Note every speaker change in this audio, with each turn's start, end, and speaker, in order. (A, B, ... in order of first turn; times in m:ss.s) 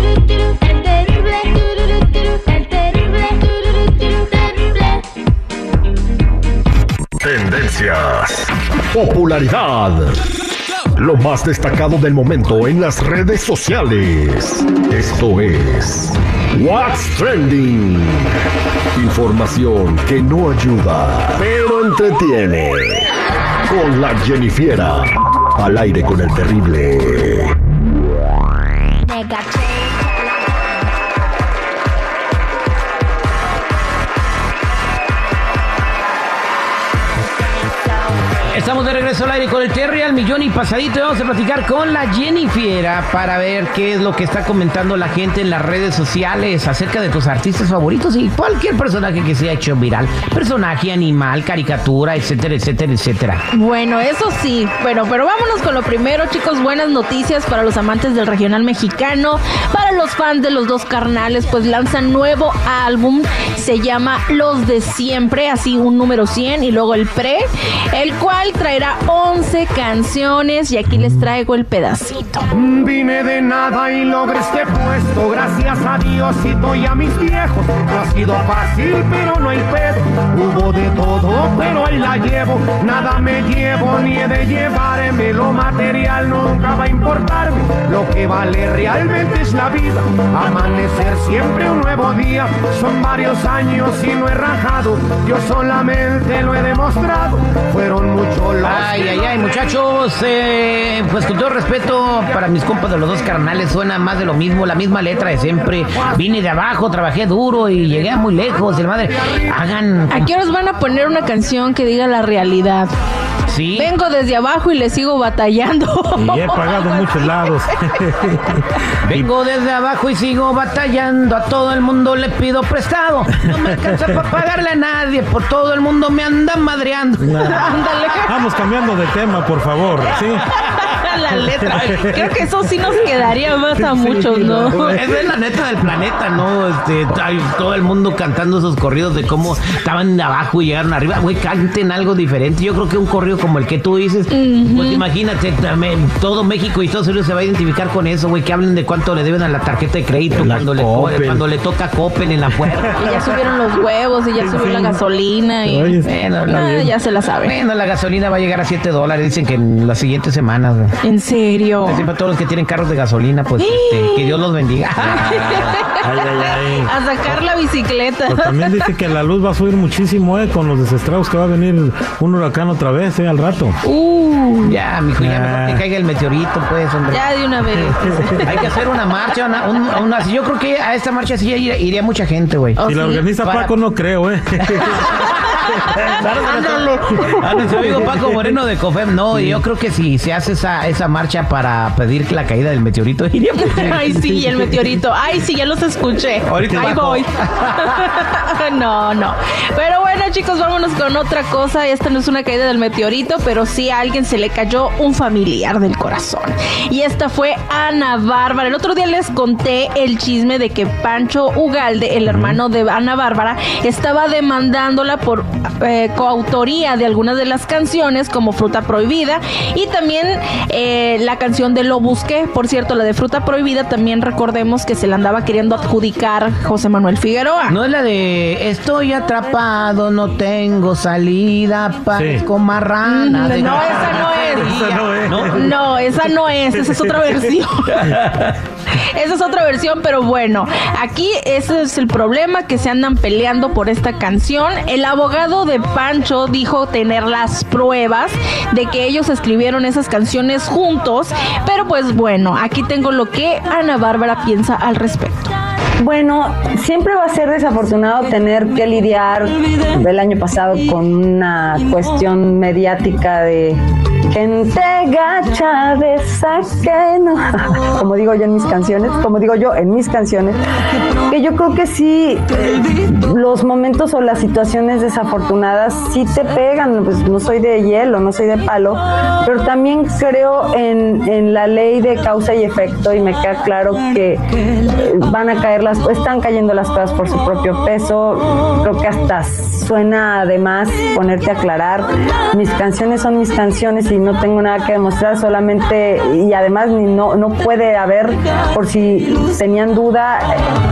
0:00.6-0:01.6 A
0:02.3-0:03.5 A
0:07.2-0:10.2 B
0:11.0-0:18.3 B
0:19.0-0:23.1 B
0:23.7-0:27.5 B
0:29.1-0:29.6 A
0:38.5-0:53.4 C
0:53.5-1:12.5 A
1:12.5-1:39.5 D
1:38.6-1:50.3 C
1:50.1-1:52.9 A
1:53.5-1:53.9 C
1:53.8-1:57.6 A
1:56.2-1:59.3 E
1:59.0-2:07.4 C
2:07.2-2:07.6 E
2:07.4-2:08.3 A
2:08.3-2:10.4 E
2:10.6-2:15.0 A
2:11.5-2:12.2 E
2:13.8-2:15.0 E
2:14.7-2:33.0 C
2:24.3-2:25.0 A
2:30.3-2:31.4 E
2:32.6-2:32.8 E
2:33.0-2:37.6 A
2:34.4-2:35.0 E
2:35.6-2:36.9 E
2:36.1-2:36.7 C
2:37.4-2:40.9 C
2:41.0-2:42.0 A
2:41.8-2:45.3 C
2:43.6-2:44.4 A
2:45.1-2:46.9 E
2:45.1-2:48.9 A
2:48.3-2:53.8 E
2:53.8-2:54.8 A
2:54.6-2:57.2 C
2:55.2-2:55.8 E
2:57.1-2:58.7 A
2:58.5-3:02.8 C
3:02.8-3:03.2 A
3:02.9-3:06.3 E
3:03.4-3:03.8 C
3:04.8-3:05.2 C
3:05.2-3:05.8 A
3:06.1-3:13.9 C
3:06.4-3:07.8 A
3:07.2-3:08.2 E
3:13.6-3:47.8 A
3:14.0-3:14.5 E
3:16.5-3:18.0 C
3:16.5-3:16.9 E
3:32.3-3:32.6 E
3:47.7-3:55.7 C
3:52.1-3:52.4 E
3:53.0-3:54.8 A
3:53.7-3:55.7 E
3:55.5-3:58.2 A
3:58.0-3:58.6 C
3:59.0-4:15.5 A
4:16.0-4:23.8 F
4:24.3-4:30.6 F
4:31.3-5:00.6 F